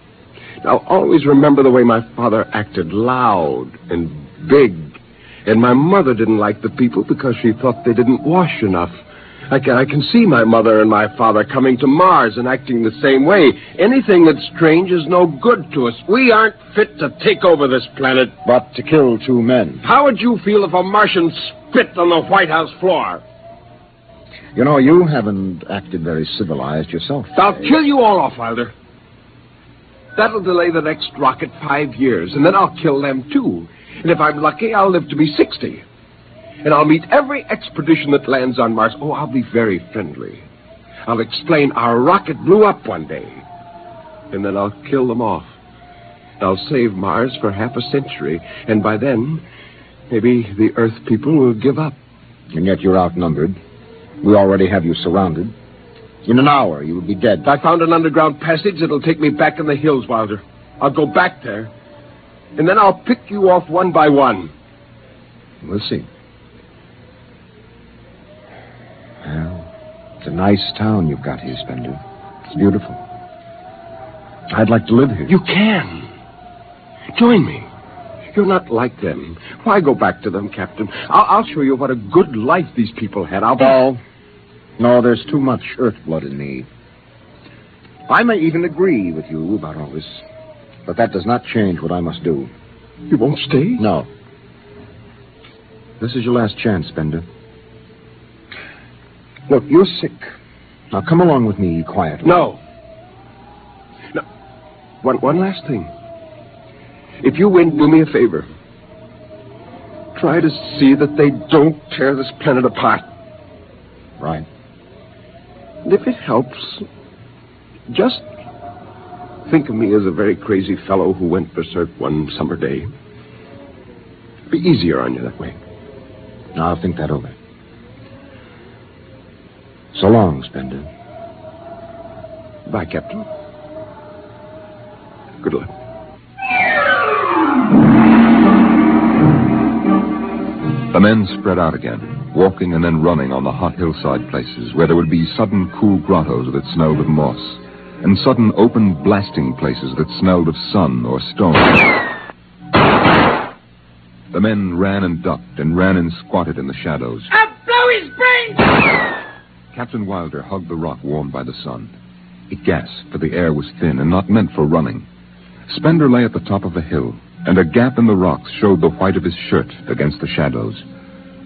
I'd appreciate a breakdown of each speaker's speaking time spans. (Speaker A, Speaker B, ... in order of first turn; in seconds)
Speaker A: 0.6-18.4, 19.8-23.2, 27.4-28.7, 30.2-35.8, 36.6-40.5, 41.1-43.5, 44.3-45.5, 46.4-49.4, 50.1-52.0, 57.5-61.7, 62.6-64.5, 75.3-76.1, 77.1-77.7, 78.3-83.9, 93.1-93.8, 102.2-102.6, 105.0-105.9, 107.2-108.5, 110.2-113.0, 115.8-116.8, 117.9-118.3, 119.5-122.9, 124.5-125.6, 132.7-133.3, 135.4-135.7
Speaker B: 18.4-19.8, 24.6-27.4, 52.5-53.6, 54.2-55.5, 56.2-57.5, 65.6-66.1, 69.2-69.7, 70.2-73.0, 74.5-75.4, 83.6-84.0, 84.8-86.7, 88.1-90.2, 90.9-92.5, 93.8-94.1, 96.0-97.3, 99.5-100.3, 100.9-102.5, 114.2-114.5, 126.5-127.3, 129.9-130.9
Speaker C: 140.9-151.9, 154.3-157.3, 159.7-161.9, 162.5-165.1, 165.7-170.8